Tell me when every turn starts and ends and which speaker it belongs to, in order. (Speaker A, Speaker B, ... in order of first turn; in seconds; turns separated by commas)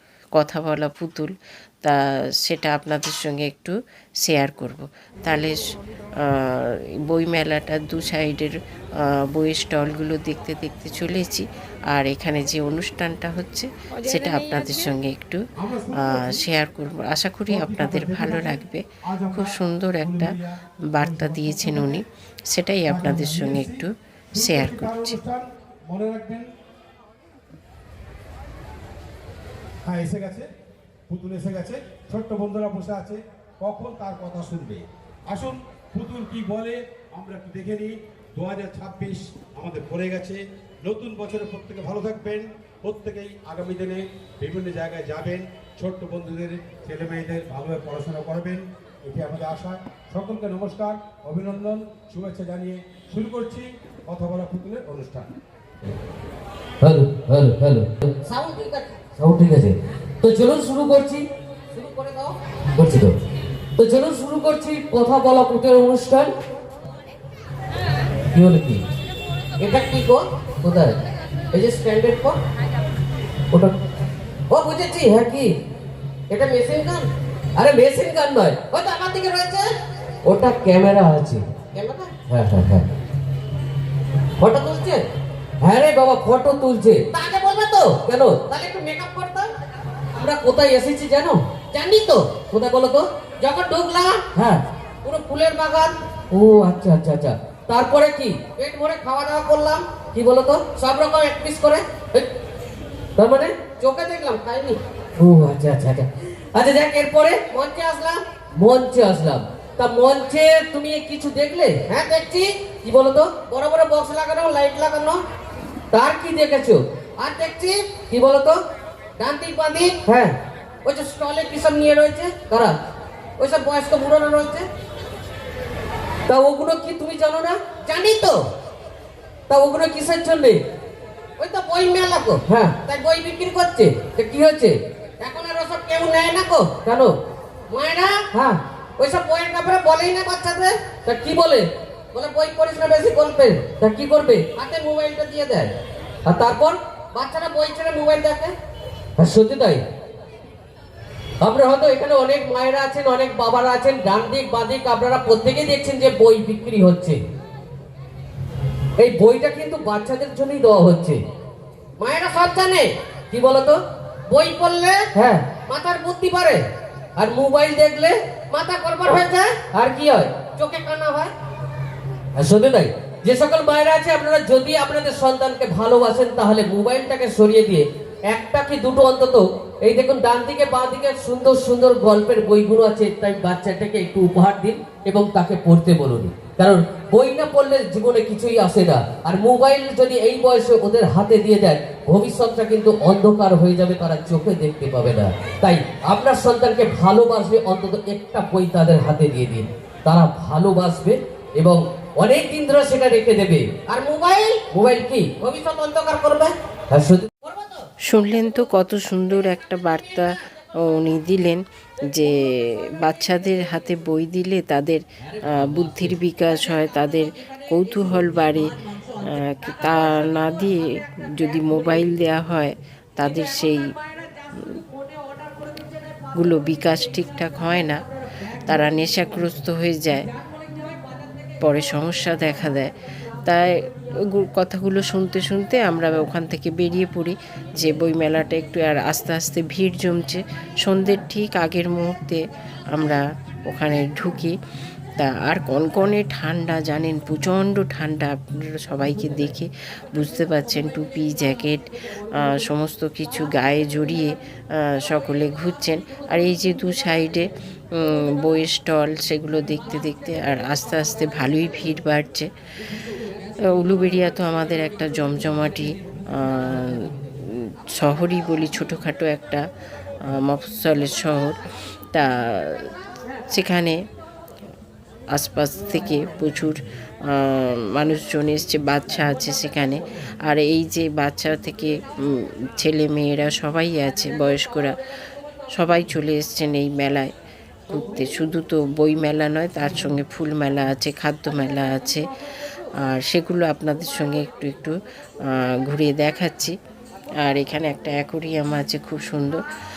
Speaker A: 0.3-5.6, Speaker A: 6.2-15.4, Speaker B: 15.6-16.4, Speaker A: 16.0-20.4, Speaker B: 17.5-20.6, Speaker A: 20.9-25.1, Speaker B: 21.2-21.9, Speaker B: 22.9-23.8, Speaker B: 24.3-26.5, Speaker B: 29.9-30.5, Speaker B: 31.1-55.3, Speaker C: 56.8-58.1, Speaker D: 58.2-59.1, Speaker C: 59.2-61.3, Speaker D: 61.7-62.4, Speaker C: 62.8-63.1, Speaker C: 63.8-66.3, Speaker C: 68.3-68.8, Speaker D: 69.6-70.3, Speaker C: 70.6-71.0, Speaker D: 71.5-72.4, Speaker D: 74.5-75.2, Speaker C: 75.1-75.5, Speaker D: 76.3-77.1, Speaker C: 77.6-78.6, Speaker D: 78.6-79.7, Speaker C: 80.2-81.5, Speaker D: 81.7-82.2, Speaker C: 82.3-82.9, Speaker D: 84.4-85.1, Speaker C: 85.6-87.1, Speaker D: 87.1-89.5, Speaker C: 88.0-88.4, Speaker D: 90.2-90.5, Speaker C: 90.2-91.4, Speaker D: 91.6-94.3, Speaker C: 94.3-94.6, Speaker D: 95.0-96.0, Speaker C: 96.3-98.5, Speaker D: 98.5-100.1, Speaker C: 100.1-100.6, Speaker D: 100.6-102.2, Speaker C: 103.2-103.6, Speaker D: 103.6-104.8, Speaker C: 105.2-107.4, Speaker D: 107.3-108.2, Speaker C: 108.6-111.8, Speaker D: 111.8-115.2, Speaker C: 112.8-113.3, Speaker C: 115.9-116.8, Speaker D: 117.2-118.1, Speaker C: 118.1-118.6, Speaker D: 119.2-120.1, Speaker C: 120.0-120.4, Speaker D: 120.8-122.6, Speaker D: 123.4-124.7, Speaker C: 126.3-127.7, Speaker D: 127.7-128.4, Speaker C: 129.5-130.6, Speaker D: 131.4-134.1, Speaker C: 132.5-132.8, Speaker C: 134.1-134.8, Speaker D: 135.2-136.8, Speaker C: 136.8-137.1, Speaker D: 137.7-138.3, Speaker C: 138.3-138.6, Speaker D: 139.0-140.9, Speaker C: 141.1-141.7, Speaker D: 142.1-143.8, Speaker C: 143.7-144.5, Speaker D: 144.5-145.7, Speaker C: 146.3-146.8, Speaker D: 147.1-148.6, Speaker C: 149.2-149.8, Speaker C: 151.4-157.2, Speaker D: 152.3-152.6, Speaker C: 159.0-161.2, Speaker D: 162.0-162.9, Speaker C: 163.3-163.8, Speaker D: 164.3-166.6, Speaker C: 165.1-165.5, Speaker C: 167.2-168.1, Speaker D: 167.9-169.7, Speaker C: 169.7-170.3, Speaker D: 170.3-171.3, Speaker C: 172.4-203.7, Speaker D: 203.9-204.7, Speaker C: 204.7-205.3, Speaker D: 205.3-206.6, Speaker C: 206.9-207.3, Speaker A: 208.1-223.9, Speaker A: 224.5-224.8, Speaker A: 226.3-228.0, Speaker A: 228.6-230.3, Speaker A: 231.6-232.9, Speaker A: 233.4-244.6, Speaker A: 245.2-262.5, Speaker A: 263.7-269.6, Speaker A: 270.3-271.6, Speaker A: 272.1-272.9, Speaker A: 273.5-274.0, Speaker A: 275.3-285.0, Speaker A: 285.7-287.3, Speaker A: 287.9-292.3, Speaker A: 293.1-294.9, Speaker A: 295.4-296.7, Speaker A: 297.4-299.6